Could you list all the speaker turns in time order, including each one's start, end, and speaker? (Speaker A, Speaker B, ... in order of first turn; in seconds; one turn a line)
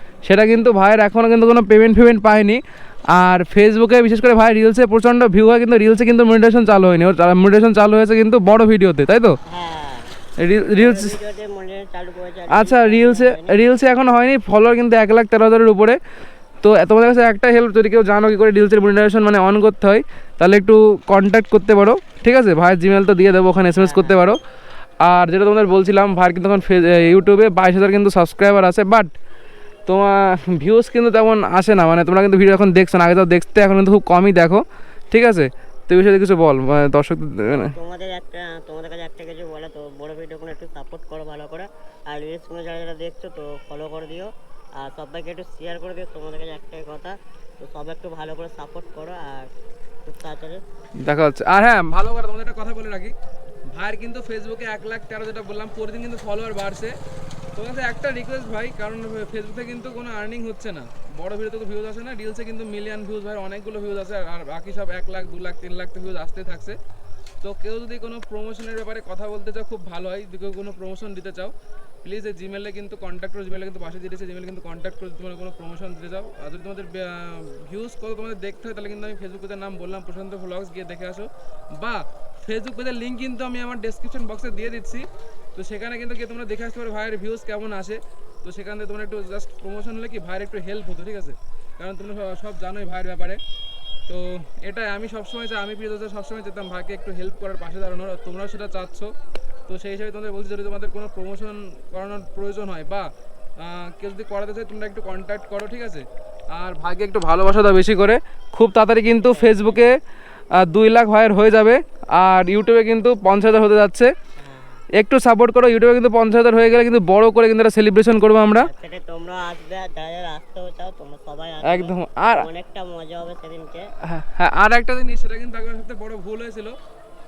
Speaker A: 0.2-2.6
Speaker A: 3.1-9.3
Speaker B: 9.5-10.1
Speaker A: 10.4-11.2
Speaker B: 10.7-13.6
Speaker A: 12.5-16.0
Speaker A: 16.6-24.4
Speaker B: 23.7-24.2
Speaker A: 25.0-29.1
Speaker A: 29.9-37.7
Speaker B: 37.5-49.5
Speaker B: 50.0-50.6
Speaker A: 51.0-53.1
Speaker A: 53.7-56.9
Speaker A: 57.5-66.8
Speaker A: 67.4-93.4
Speaker A: 94.1-99.1
Speaker A: 99.7-103.1
Speaker A: 103.6-109.9
Speaker B: 109.2-109.8
Speaker A: 110.6-114.1
Speaker B: 114.4-114.8
Speaker A: 115.0-118.7
Speaker B: 118.5-123.8
Speaker A: 121.6-122.5
Speaker A: 124.1-126.8